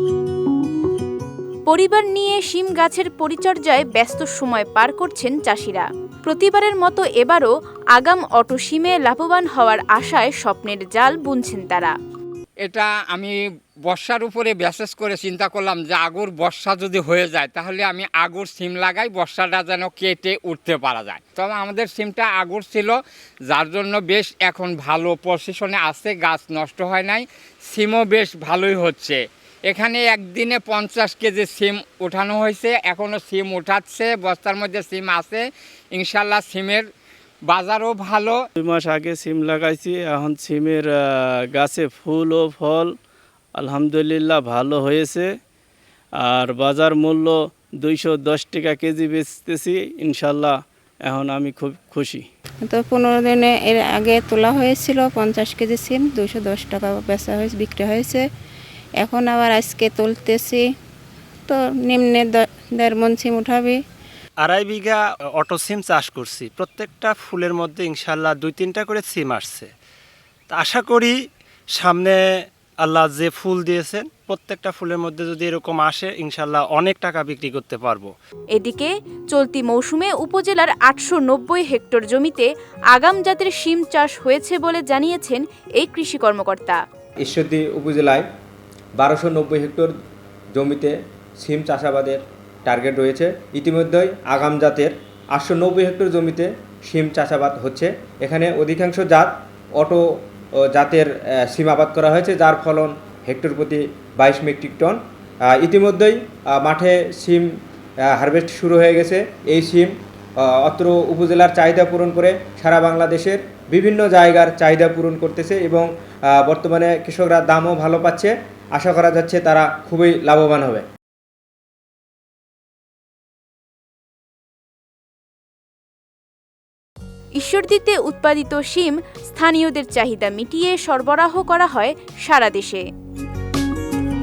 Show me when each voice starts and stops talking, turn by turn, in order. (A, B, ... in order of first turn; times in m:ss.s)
0:01.7-0:11.9 A
0:12.6-0:13.4 B
0:13.9-0:23.0 B
0:23.5-0:35.4 B
0:35.9-0:36.9 B
0:37.5-0:38.4 B
0:38.6-0:43.0 C
0:43.6-0:45.3 C
0:46.2-0:52.3 C
0:52.7-0:58.2 D
0:59.0-1:00.6 D
1:01.5-1:03.8 D
1:04.4-1:09.7 E
1:10.5-1:11.2 E
1:11.7-1:12.2 E
1:12.8-1:18.1 E
1:18.5-1:26.8 A
1:27.2-1:28.2 F
1:29.0-1:29.9 F
1:30.6-1:40.0 F
1:40.6-1:47.5 F
1:48.1-2:00.8 F
2:07.4-2:12.8 A